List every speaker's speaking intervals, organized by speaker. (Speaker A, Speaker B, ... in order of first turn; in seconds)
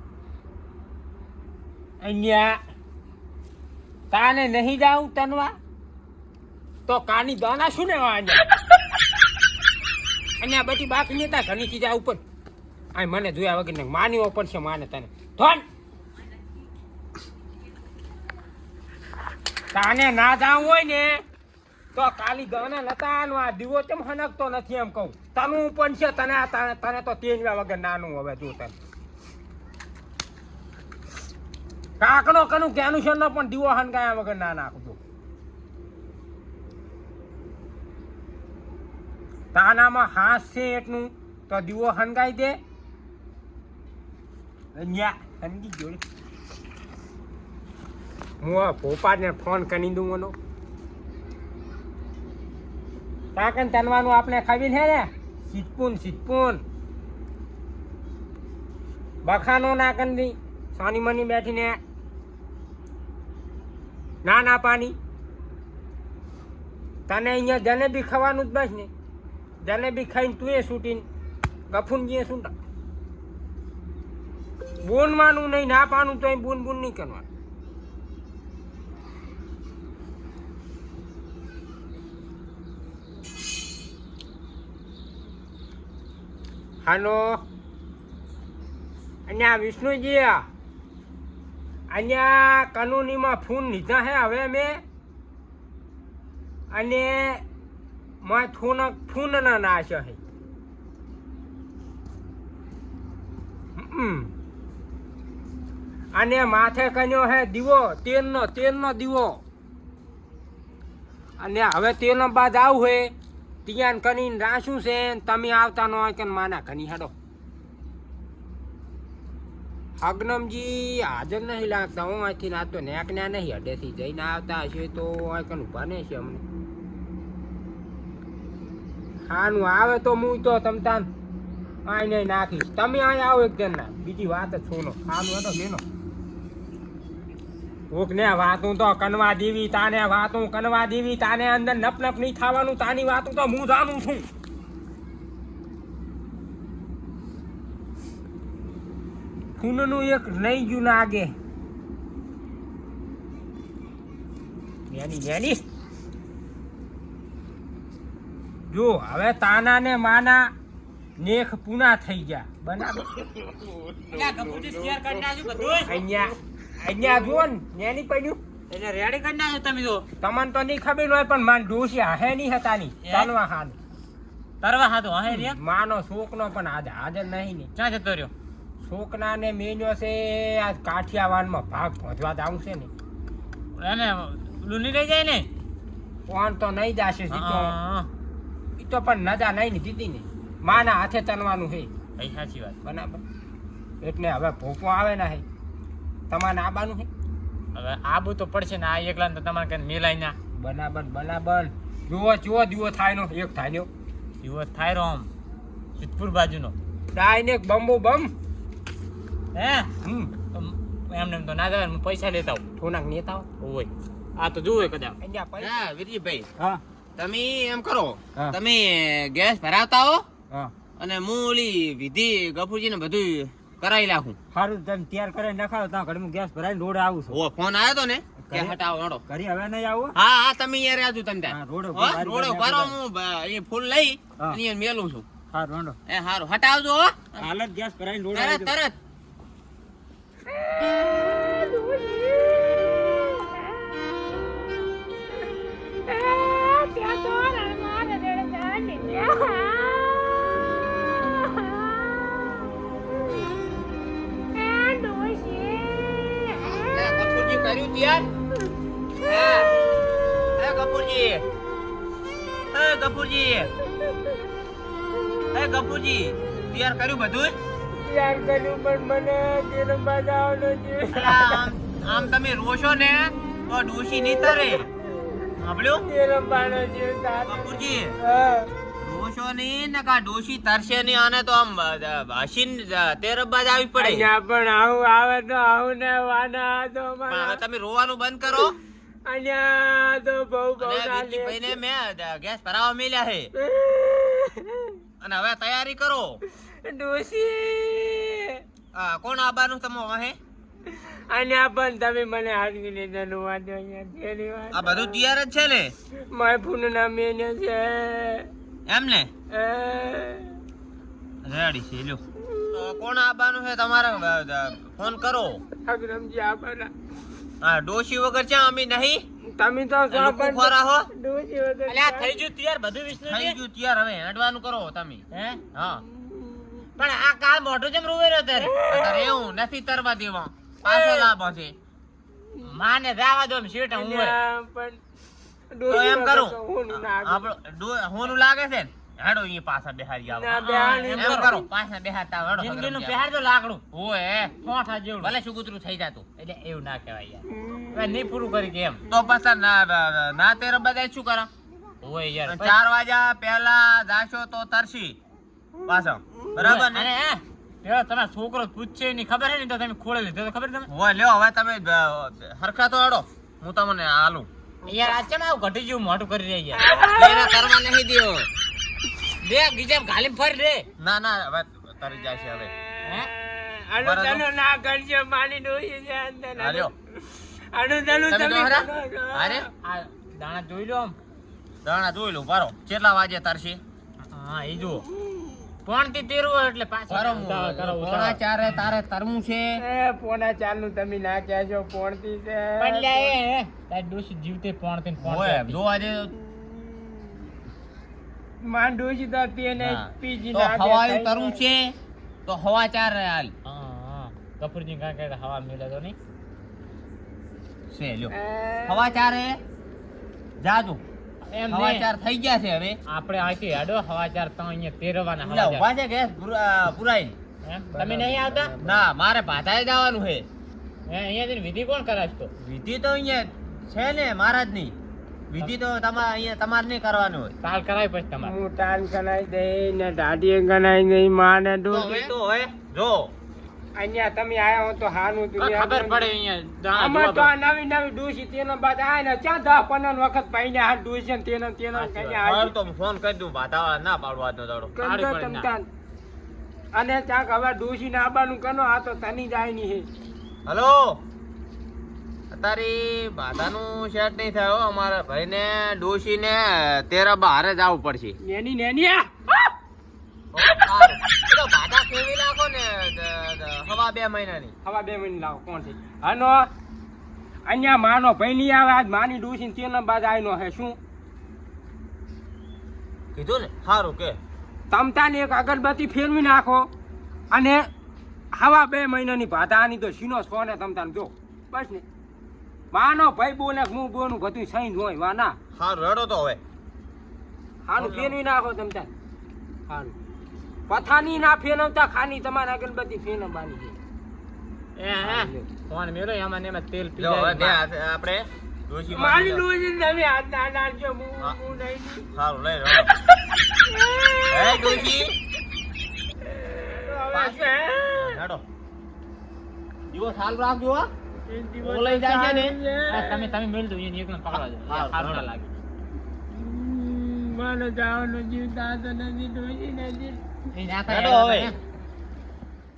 Speaker A: 2.0-2.6, 4.1-5.5, 6.9-8.4, 10.4-12.2, 12.9-15.6, 19.7-21.2, 21.9-28.7, 32.0-35.0, 39.5-42.6, 44.7-46.0, 48.4-50.3, 53.3-56.6, 59.2-61.8, 64.2-64.9, 67.1-68.9, 69.6-71.0, 71.7-72.5, 74.8-77.3, 86.8-87.4, 89.3-90.4, 91.9-94.8, 96.7-97.4, 98.2-100.2, 103.8-104.3, 106.1-109.4, 111.4-113.1, 113.7-117.1, 120.0-126.4, 129.3-131.1, 131.8-135.8, 137.9-144.3, 149.6-151.3, 154.9-155.7, 158.7-160.5, 161.2-163.2, 165.8-168.4, 170.2-173.8, 175.2-177.7, 178.8-182.9, 186.3-187.7, 188.8-191.9, 192.8-193.2, 194.0-195.4, 196.3-197.1, 200.6-203.9, 207.1-208.3, 210.0-210.3, 212.8-213.5, 215.2-215.8, 224.5-227.4, 228.4-230.1, 231.5-232.9, 235.5-236.0, 237.4-238.8, 240.5-244.3, 246.0-252.7, 254.5-257.0, 259.2-259.6, 268.0-271.7, 274.3-274.9, 275.9-278.7, 283.9-287.6, 289.2-291.8, 293.5-295.0, 296.6-298.6, 300.9-305.2, 306.1-308.5, 309.5-310.6, 312.5-312.8, 315.7-316.9, 319.5-322.4, 326.1-326.9, 328.6-329.5, 330.8-331.3, 333.9-335.0, 335.7-337.5, 340.3-341.6, 347.5-348.2, 366.8-367.7, 372.9-379.7, 389.8-393.3, 398.6-401.6, 408.3-409.1, 417.9-419.1, 428.4-432.3, 433.9-436.3, 436.9-442.7, 444.9-445.9, 446.9-450.1, 458.4-459.5, 464.8-466.7, 467.7-471.0, 474.9-476.9, 477.5-477.8, 478.5-482.0, 482.9-485.6, 487.9-489.1, 489.9-490.1, 490.9-494.0, 495.2-495.7, 499.1-502.3, 503.7-505.1, 506.6-508.4, 511.5-513.5, 516.5-520.4
Speaker B: 164.1-166.0, 168.7-170.0, 173.0-173.3, 174.6-175.6, 177.8-178.3, 183.8-185.5, 187.3-188.1, 192.2-192.8, 197.7-200.3, 204.4-205.3, 206.0-206.7, 209.5-209.9, 210.5-212.6, 213.6-215.2, 321.9-323.6, 325.3-325.6, 327.0-328.8, 332.6-334.4, 340.5-341.6, 342.5-343.8, 344.6-345.3, 346.4-349.0, 352.0-352.8, 356.6-360.9, 364.9-366.8, 369.4-370.9, 373.0-373.3, 379.8-381.1, 384.3-385.1, 385.9-388.8, 392.8-395.8, 403.6-406.1, 411.5-412.1, 413.1-415.9, 417.6-418.7, 421.1-422.5, 427.6-428.5, 435.6-437.5, 441.9-442.4, 445.0-445.7, 488.0-488.3, 495.0-497.8, 513.1-515.7, 520.7-521.8
Speaker C: 215.6-216.5, 217.2-220.2, 221.0-224.4, 227.3-229.2, 230.1-235.2, 236.1-237.4, 238.3-238.9, 256.9-258.3, 259.2-259.7, 260.6-261.4, 262.7-263.7, 265.5-267.6, 271.1-274.9, 275.6-276.1, 277.5-278.1, 279.0-284.3, 287.3-288.8, 290.8-293.5, 295.2-296.4, 298.9-300.4, 304.7-305.9, 308.9-309.3, 311.4-312.2, 312.7-315.6, 317.6-319.2, 320.1-321.1, 323.1-326.0, 328.8-331.7, 335.9-340.6, 341.1-343.2, 343.9-344.6, 345.2-346.2, 349.1-351.5, 352.5-355.2, 355.9-357.1, 360.9-364.5, 367.1-368.5, 371.0-372.7, 374.0-374.4, 376.6-376.9, 378.3-379.7, 381.8-383.8, 387.1-389.8, 395.2-396.5, 399.8-403.5, 407.9-408.3, 408.9-409.6, 410.6-411.0, 411.7-413.0, 415.4-417.4, 418.8-420.4, 422.6-424.9, 425.5-427.5, 431.9-433.3, 442.4-444.9, 450.6-451.2, 452.5-458.4, 460.5-464.8, 473.3-474.4, 485.8-486.6, 497.2-499.6, 502.3-503.1, 504.5-505.4, 507.3-508.6, 510.1-511.1, 511.8-512.7, 514.5-515.5, 521.1-521.7